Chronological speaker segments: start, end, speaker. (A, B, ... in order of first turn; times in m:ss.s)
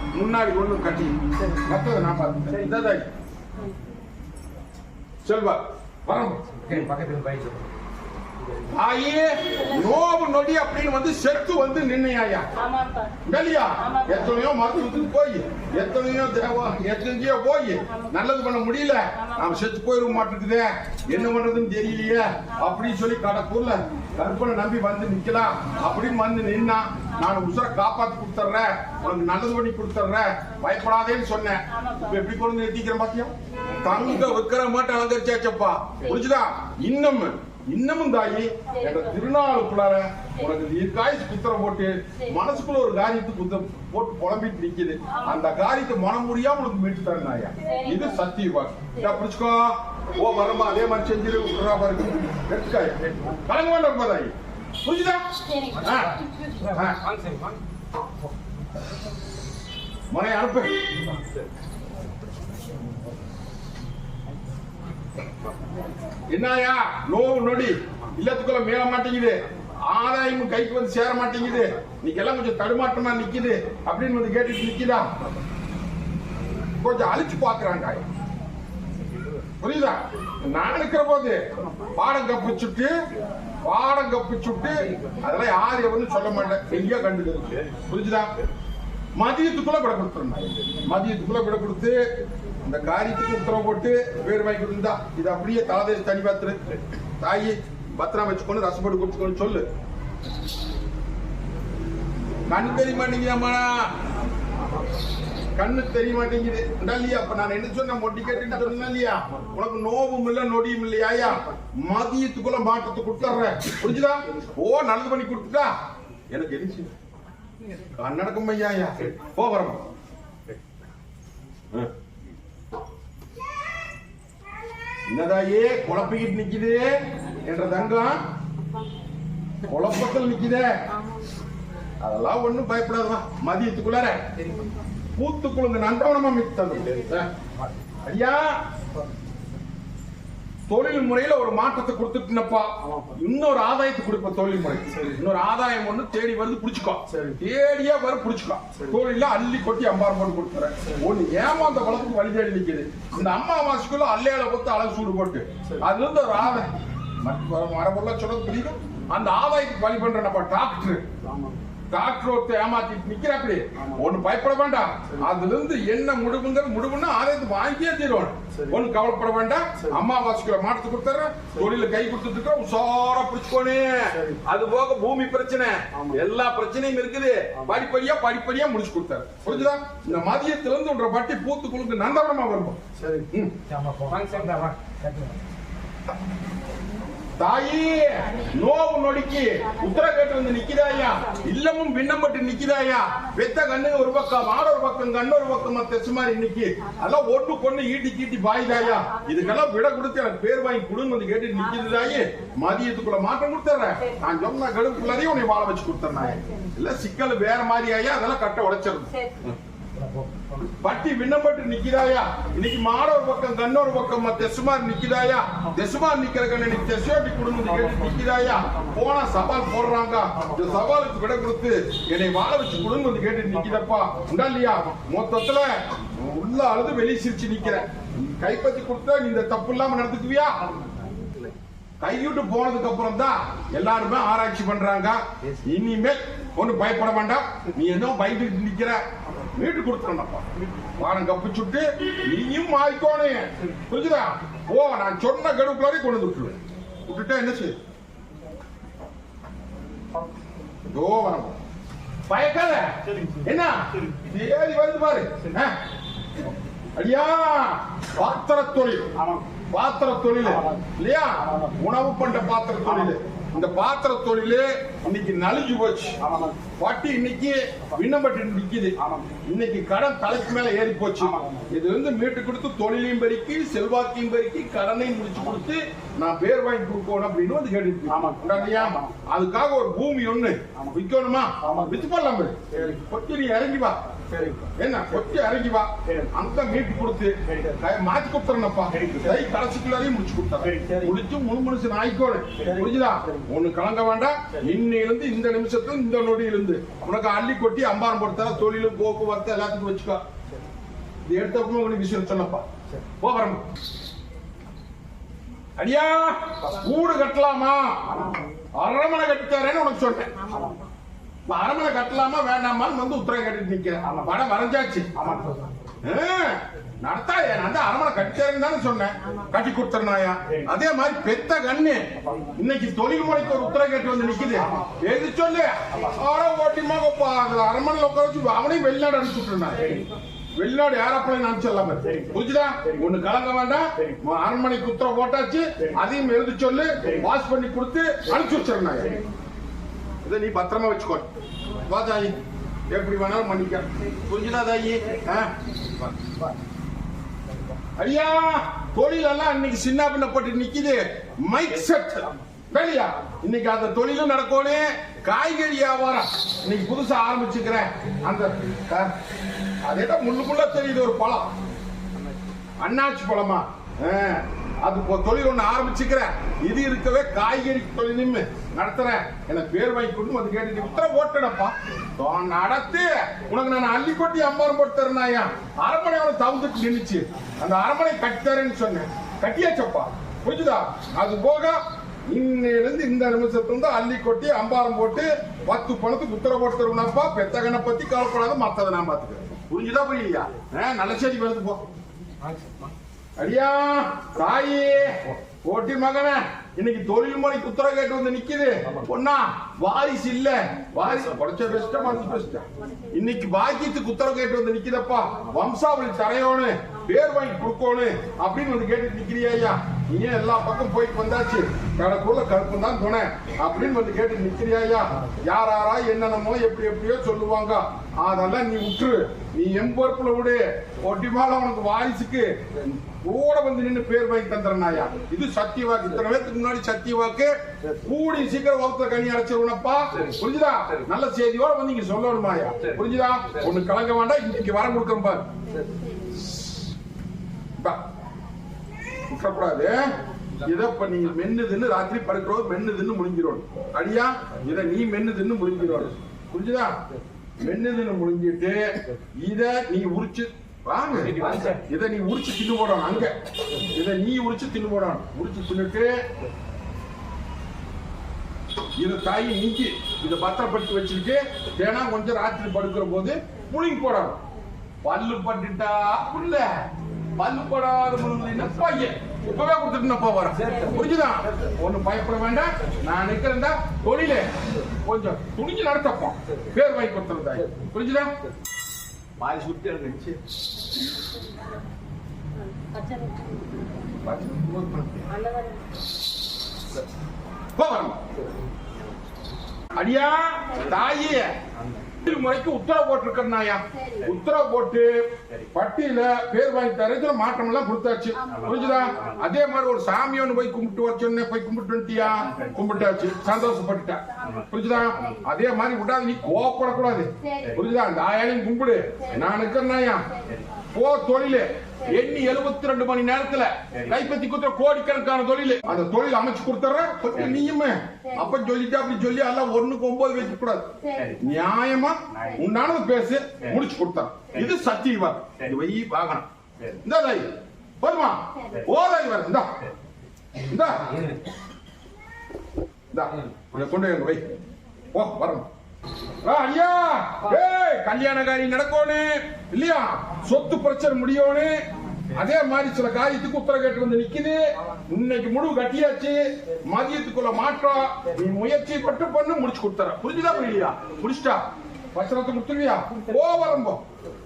0:00.1-0:03.1 A
0:05.2-0:06.9 A
0:06.7-0:07.6 B
0:08.7-0:12.5 A
0:12.6-0:13.1 C
0:13.3-0:55.2 A
0:13.9-0:14.2 C
0:31.7-0:32.2 C
0:38.7-0:39.2 C
0:45.1-0:45.4 C
0:47.6-0:48.2 C
0:55.5-0:56.0 C
0:55.8-0:57.0 A
0:56.6-0:57.6 B
1:00.1-1:00.9 A
1:06.3-1:15.0 A
1:16.8-1:18.0 A
1:19.6-1:21.4 A
1:22.0-1:22.9 A
1:23.6-1:28.3 A
1:29.2-1:32.0 A
1:32.7-1:36.6 A
1:37.2-1:39.7 A
1:42.5-1:43.9 A
1:45.6-1:55.7 A
1:56.3-1:56.9 A
1:58.0-1:59.8 A
2:05.1-2:08.2 A
2:09.7-2:10.8 A
2:12.0-2:14.3 A
2:15.2-2:17.3 A
2:18.0-2:18.6 A
2:20.7-2:36.7 A
2:37.2-2:41.1 A
2:41.3-2:41.6 B
2:41.9-3:02.8 A
3:03.0-3:05.4 B
3:07.4-3:29.1 A
3:18.9-3:19.7 C
3:21.7-3:22.6 C
3:24.0-3:24.4 C
3:26.4-3:26.7 C
3:29.1-3:29.5 C
3:30.0-3:30.6 B
3:30.8-3:50.6 A
3:52.0-3:59.0 A
3:59.6-4:00.5 A
4:01.0-4:07.8 A
4:10.9-4:11.6 A
4:12.3-4:15.8 A
4:17.0-4:19.1 A
4:19.7-4:26.2 A
4:26.8-4:44.0 A
4:44.3-4:44.6 B
4:44.8-5:00.2 A
5:01.3-5:02.7 A
5:03.2-5:03.6 A
5:05.8-5:10.3 A
5:10.5-5:10.8 C
5:11.5-5:15.3 A
5:15.2-5:15.7 B
5:16.0-5:30.0 A
5:30.6-5:39.2 A
5:40.2-5:41.3 A
5:41.8-5:42.4 A
5:42.9-5:45.5 A
5:48.0-5:59.2 A
5:59.9-6:01.6 A
6:02.8-6:31.8 A
6:33.4-7:15.5 A
6:42.7-6:43.1 C
7:15.7-7:16.3 C
7:19.3-7:27.0 A
7:27.6-7:36.2 A
7:31.2-7:31.8 B
7:39.0-7:44.4 A
7:45.0-7:46.8 A
7:47.4-7:58.3 A
7:59.4-8:00.4 A
8:02.6-8:03.8 C
8:04.2-8:05.3 A
8:05.3-8:06.0 C
8:07.8-8:08.2 A
8:10.0-8:11.5 A
8:12.2-8:15.1 A
8:13.9-8:14.3 C
8:15.7-8:30.3 A
8:18.4-8:19.4 C
8:24.4-8:25.4 C
8:27.4-8:27.7 C
8:29.3-8:29.7 C
8:30.4-8:30.6 C
8:30.9-8:46.5 A
8:41.0-8:41.4 C
8:47.0-8:49.7 A
8:50.7-8:51.4 A
8:53.1-8:54.5 A
8:55.1-8:55.7 A
8:56.4-9:01.8 A
9:02.3-9:14.0 A